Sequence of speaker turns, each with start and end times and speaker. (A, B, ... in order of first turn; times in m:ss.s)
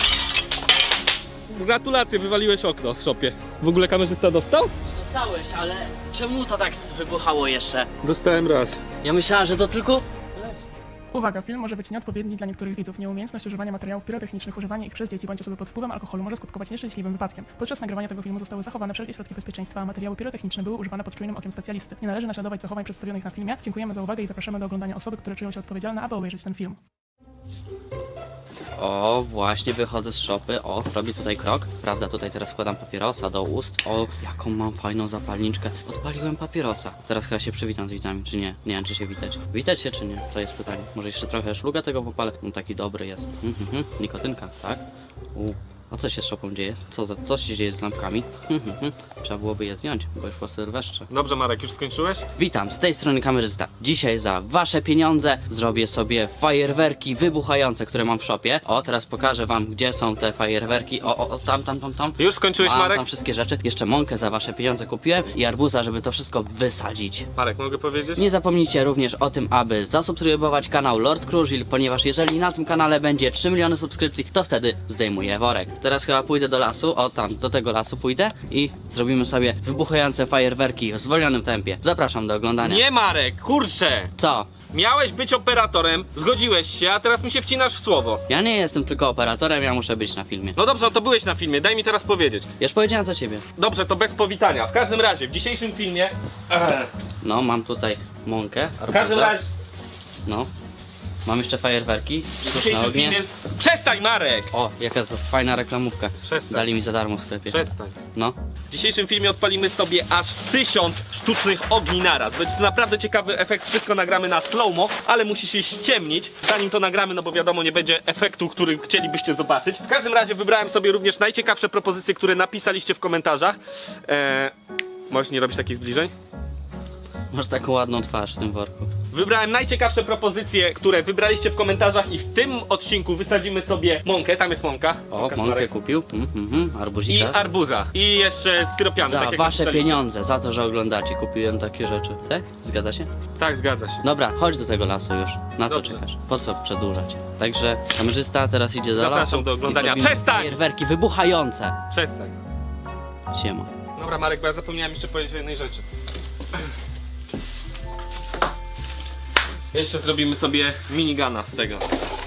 0:01.5-0:04.7 A
0:04.9-0:07.9 B
0:08.0-0:08.8 A
0:09.0-0:10.0 B
0:11.1-0:26.8 C
0:28.8-0:44.8 B
0:45.4-0:51.1 B
0:51.1-0:52.2 A
0:52.4-1:07.3 B
1:02.2-1:03.0 A
1:07.4-1:08.2 A
1:08.2-1:22.8 B
1:22.6-1:24.1 A
1:24.2-1:24.5 B
1:24.7-1:28.2 A
1:28.3-1:30.6 B
1:30.6-1:32.5 A
1:32.6-1:33.4 B
1:33.6-1:36.9 A
1:37.2-1:39.4 B
1:38.9-1:39.5 A
1:41.2-1:43.2 B
1:42.4-1:44.5 A
1:44.5-1:47.6 B
1:46.2-1:46.7 A
1:47.5-1:48.0 A
1:48.7-2:04.5 A
2:05.1-2:06.1 A
2:07.3-2:08.9 B
2:09.1-2:15.7 A
2:15.1-2:17.4 B
2:17.1-2:20.1 A
2:19.0-2:23.1 B
2:23.4-2:24.0 A
2:24.0-2:31.8 B
2:25.7-2:26.0 A
2:28.9-2:30.6 A
2:31.9-2:32.4 A
2:33.3-2:33.7 B
2:34.0-2:35.9 A
2:39.7-2:41.9 A